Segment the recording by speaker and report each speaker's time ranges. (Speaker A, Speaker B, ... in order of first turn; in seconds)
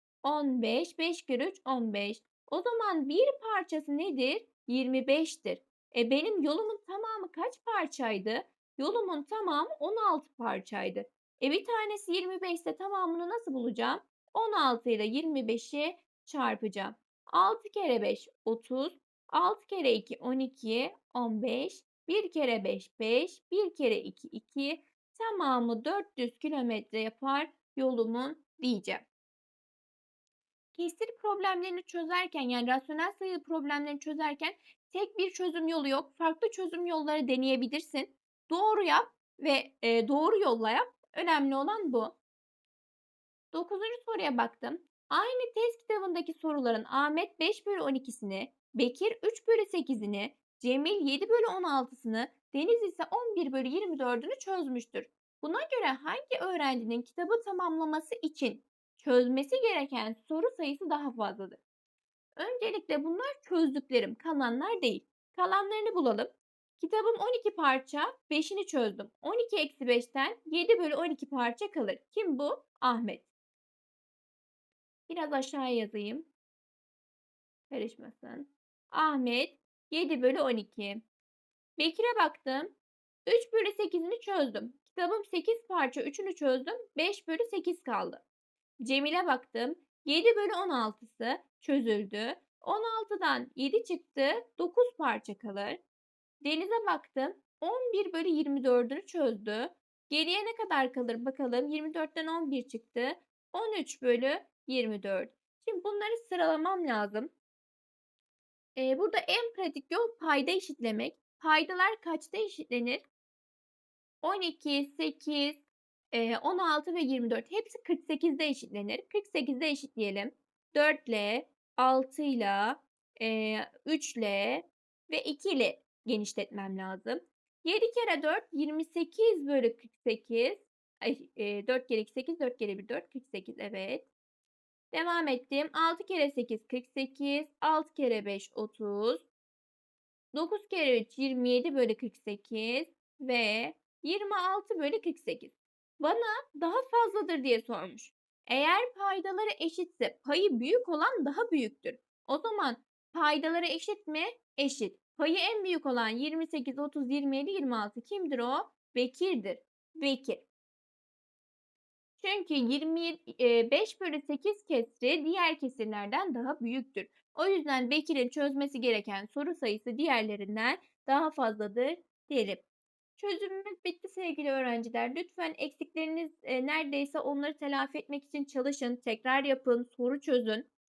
Speaker A: 0.2-29.1, 30.8-42.2, 43.5-61.6, 62.4-73.3, 75.1-76.3, 77.7-81.0, 81.8-82.8, 83.3-88.2, 88.8-95.8, 96.4-107.3, 108.8-113.0, 114.2-115.6, 116.1-134.1, 134.9-139.3, 140.3-160.4, 162.2-172.6, 173.2-180.7